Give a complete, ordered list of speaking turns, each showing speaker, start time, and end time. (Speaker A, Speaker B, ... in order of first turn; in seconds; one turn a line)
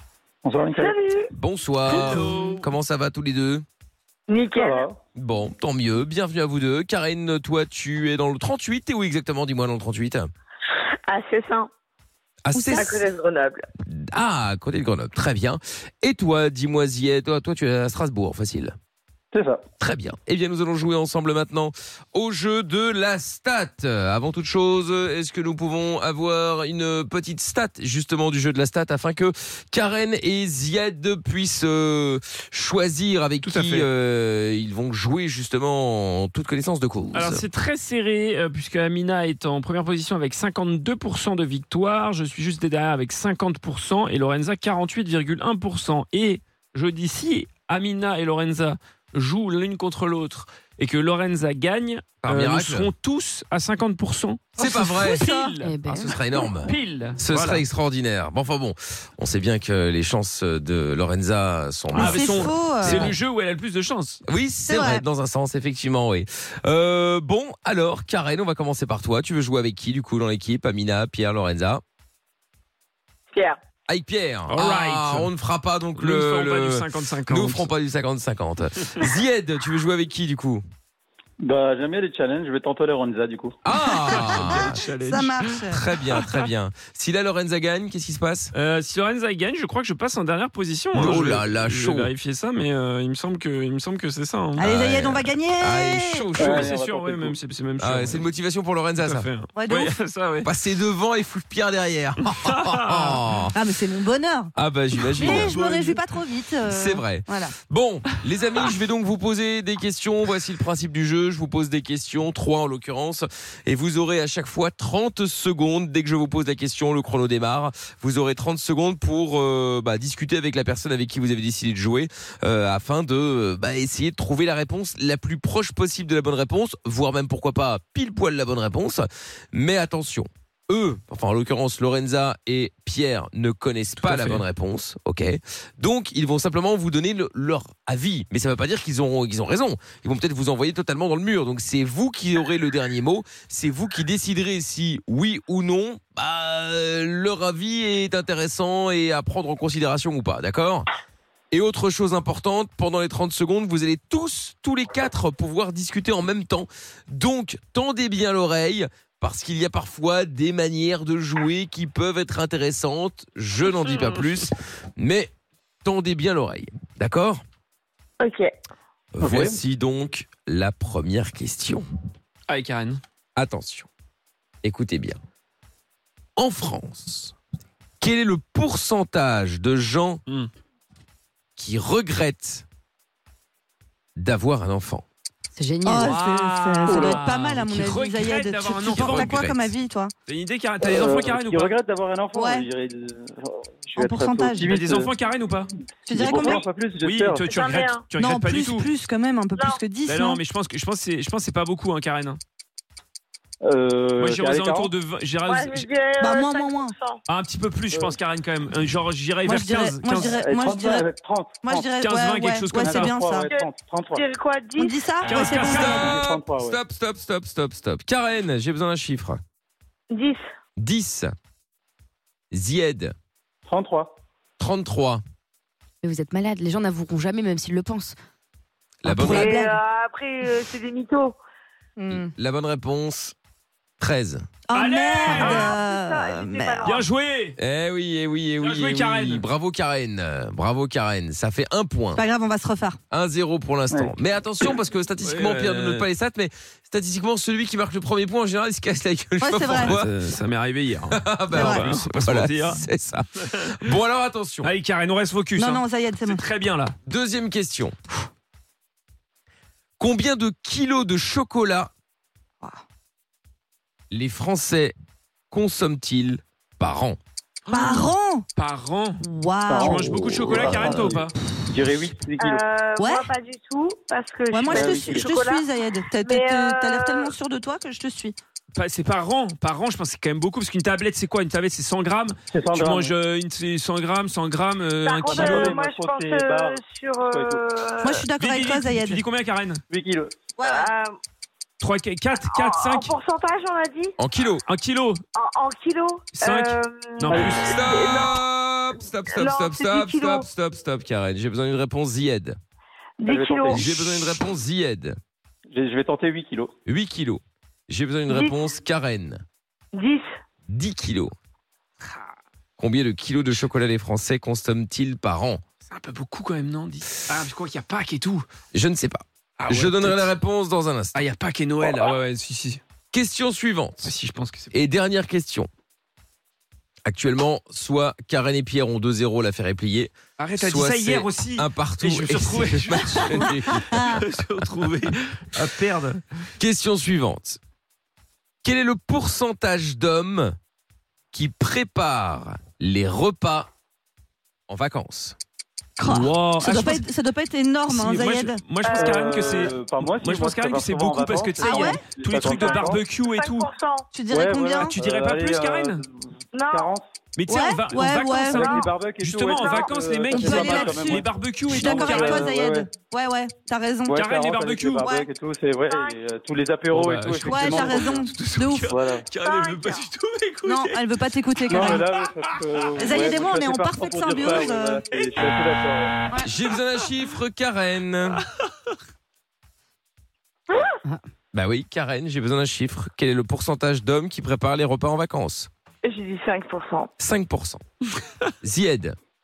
Speaker A: 0.4-1.0
Speaker B: 0.7-1.3
Speaker C: 1.3-3.6
Speaker D: 1.9-2.7
Speaker B: 4.3-4.9
Speaker A: 4.5-5.0
Speaker C: 5.2-10.3
Speaker B: 11.1-11.7
Speaker C: 12.4-13.0
Speaker E: 12.5-12.9
Speaker B: 12.7-13.7
Speaker C: 13.9-18.8
Speaker A: 19.3-19.6
Speaker C: 19.8-37.4
Speaker D: 33.4-33.9
Speaker D: 37.1-57.6
Speaker C: 52.2-52.9
Speaker C: 54.6-55.3
Speaker E: 54.6-55.6
Speaker F: 55.6-56.1
Speaker C: 55.9-63.2
Speaker E: 61.9-63.1
Speaker D: 61.9-64.2
Speaker C: 64.3-71.8
Speaker E: 64.7-65.0
Speaker B: 73.3-73.6
Speaker C: 73.9-80.6
Speaker D: 74.5-75.3
Speaker D: 76.0-77.7
Speaker A: 81.4-83.5
Speaker C: 83.6-84.8
Speaker D: 83.9-86.5
Speaker E: 84.1-85.8
Speaker C: 85.7-88.5
Speaker D: 88.5-94.7
Speaker C: 90.9-92.1
Speaker C: 94.6-96.7
Speaker E: 94.6-96.3
Speaker D: 96.3-98.3
Speaker A: 96.4-97.4
Speaker C: 97.8-99.3
Speaker D: 99.0-100.5
Speaker E: 99.5-100.0
Speaker C: 100.4-103.5
Speaker D: 102.3-103.2
Speaker E: 103.5-104.5
Speaker C: 104.6-105.8
Speaker E: 105.2-107.6
Speaker D: 105.2-106.0
Speaker C: 106.6-150.9
Speaker D: 134.0-134.4
Speaker C: 151.5-165.3
Speaker C: 165.8-167.4
Speaker B: 168.2-168.5
Speaker C: 169.1-171.9
Speaker A: 169.2-169.6
Speaker D: 172.5-173.0
Speaker C: 173.4-173.9
Speaker C: 174.6-175.2
Speaker C: 176.4-177.3
Speaker C: 178.0-180.2
Speaker C: 181.6-182.7
Speaker C: 184.2-185.1
Speaker F: 185.6-186.0
Speaker E: 185.8-190.1
Speaker D: 185.9-189.4
Speaker A: 186.8-187.2
Speaker C: 188.8-189.7
Speaker D: 190.3-191.8
Speaker A: 190.8-195.1
Speaker E: 192.3-192.7
Speaker E: 194.0-194.8
Speaker D: 194.7-195.7
Speaker E: 196.1-196.6
Speaker A: 196.1-197.4
Speaker D: 196.3-198.9
Speaker B: 197.4-198.1
Speaker E: 198.2-200.4
Speaker B: 199.6-199.8
Speaker D: 200.0-202.4
Speaker A: 203.6-204.9
Speaker D: 204.2-205.9
Speaker B: 205.4-207.2
Speaker E: 206.2-206.9
Speaker D: 207.3-210.4
Speaker A: 207.9-208.2
Speaker E: 209.4-211.1
Speaker A: 210.2-211.9
Speaker E: 211.6-213.5
Speaker D: 212.0-213.2
Speaker A: 212.7-214.3
Speaker B: 213.4-215.0
Speaker E: 214.8-216.2
Speaker D: 215.2-216.1
Speaker C: 215.4-219.4
Speaker A: 215.6-216.8
Speaker B: 220.1-220.4
Speaker C: 220.8-221.3
Speaker C: 222.5-223.1
Speaker A: 223.7-224.1
Speaker C: 224.6-225.2
Speaker F: 226.0-228.2
Speaker C: 229.0-229.7
Speaker E: 229.1-229.8
Speaker B: 229.2-231.4
Speaker E: 232.0-232.3
Speaker C: 232.1-233.3
Speaker C: 234.0-234.4
Speaker E: 234.7-236.9
Speaker D: 234.7-235.8
Speaker B: 235.3-237.1
Speaker D: 236.8-237.6
Speaker C: 237.6-242.2
Speaker D: 238.6-239.4
Speaker E: 242.2-243.0
Speaker C: 243.1-250.1
Speaker D: 245.2-246.1
Speaker E: 249.4-250.0
Speaker D: 249.7-252.8
Speaker C: 251.1-254.7
Speaker E: 251.5-251.8
Speaker D: 254.6-256.9
Speaker E: 255.6-256.4
Speaker C: 257.1-257.9
Speaker C: 260.0-261.9
Speaker C: 264.1-264.9
Speaker C: 265.5-267.2
Speaker D: 267.7-269.3
Speaker E: 267.7-268.4
Speaker E: 269.2-271.1
Speaker A: 269.7-272.6
Speaker D: 269.8-271.4
Speaker B: 272.4-275.6
Speaker E: 273.0-273.3
Speaker E: 274.5-278.4
Speaker A: 274.7-275.3
Speaker D: 274.8-275.3
Speaker B: 276.2-277.3
Speaker D: 278.7-285.8
Speaker A: 282.5-283.1
Speaker B: 285.0-288.3
Speaker A: 285.3-287.6
Speaker E: 288.0-289.2
Speaker D: 288.4-289.8
Speaker A: 289.9-290.5
Speaker E: 290.6-290.9
Speaker B: 290.6-291.1
Speaker D: 291.8-293.1
Speaker B: 292.4-294.1
Speaker C: 294.2-294.6
Speaker D: 294.7-295.2
Speaker B: 295.4-298.4
Speaker D: 296.4-297.7
Speaker A: 297.3-297.6
Speaker C: 297.4-302.6
Speaker B: 299.3-300.5
Speaker B: 303.2-303.9
Speaker A: 303.2-304.2
Speaker C: 303.7-305.2
Speaker A: 305.7-306.7
Speaker C: 306.9-309.4
Speaker B: 308.3-308.6
Speaker B: 309.9-310.2
Speaker C: 310.7-311.3
Speaker C: 312.8-315.6
Speaker D: 315.9-318.5
Speaker C: 318.7-321.2
Speaker D: 319.6-320.3
Speaker D: 321.1-322.8
Speaker C: 323.1-324.1
Speaker D: 324.0-324.8
Speaker C: 324.7-325.7
Speaker C: 327.1-334.2
Speaker D: 330.4-336.2
Speaker C: 336.6-337.6
Speaker C: 338.6-340.6
Speaker C: 341.3-343.7
Speaker C: 344.7-345.4
Speaker E: 346.0-348.6
Speaker D: 346.1-347.1
Speaker D: 347.9-353.7
Speaker B: 348.8-349.7
Speaker A: 348.9-353.0
Speaker E: 351.6-352.0
Speaker B: 352.5-354.1
Speaker E: 354.1-355.0
Speaker A: 354.3-357.1
Speaker D: 354.8-356.0
Speaker B: 356.5-356.9
Speaker D: 357.4-362.5
Speaker E: 357.5-358.9
Speaker A: 357.9-362.9
Speaker B: 359.5-360.0
Speaker E: 360.3-364.2
Speaker A: 364.1-368.3
Speaker D: 364.1-365.1
Speaker E: 365.0-365.3
Speaker B: 365.9-366.2
Speaker D: 366.9-371.1
Speaker E: 367.4-368.9
Speaker A: 368.9-369.3
Speaker B: 369.3-370.1
Speaker E: 370.6-372.1
Speaker D: 371.7-373.3
Speaker A: 371.7-376.1
Speaker E: 373.0-375.1
Speaker C: 376.4-378.4
Speaker B: 380.7-381.0
Speaker C: 381.5-385.7
Speaker B: 386.0-387.1
Speaker C: 387.2-387.8
Speaker C: 388.6-389.2